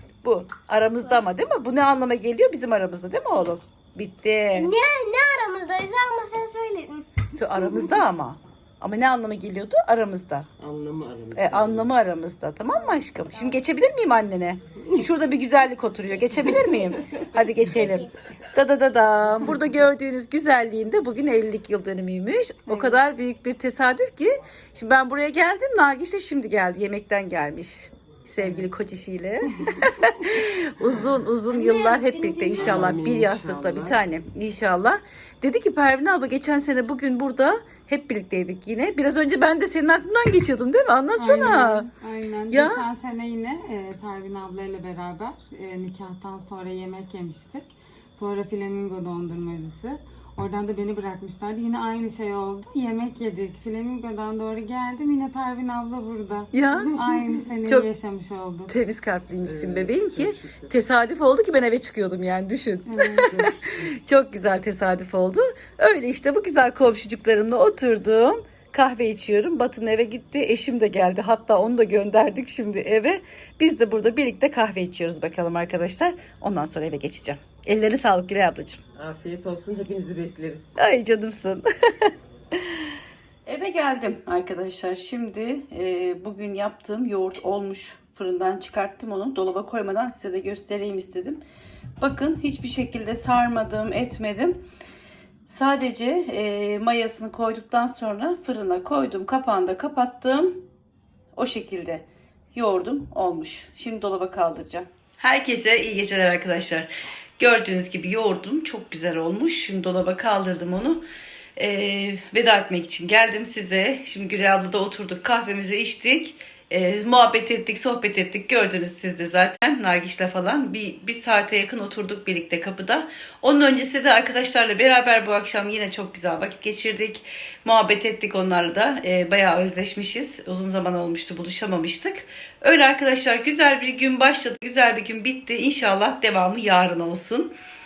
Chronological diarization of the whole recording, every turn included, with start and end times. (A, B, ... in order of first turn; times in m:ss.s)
0:00.2-0:04.7 A
0:04.5-0:07.1 B
0:07.3-0:10.5 A
0:10.6-0:11.9 C
0:11.4-0:41.9 A
0:17.8-0:18.1 B
0:22.7-0:23.0 D
0:31.5-0:32.8 B
0:32.5-0:34.0 C
0:41.2-0:58.7 D
0:42.5-0:42.8 A
0:56.5-0:57.0 A
0:57.6-0:57.9 A
0:58.7-1:18.8 A
0:59.4-1:00.7 C
1:02.8-1:03.3 D
1:03.2-1:03.5 C
1:19.0-1:20.7 C
1:20.8-1:22.1 A
1:23.4-1:31.4 A
1:32.0-1:34.6 A
1:35.5-1:40.6 A
1:41.4-1:51.0 A
1:51.6-2:17.5 A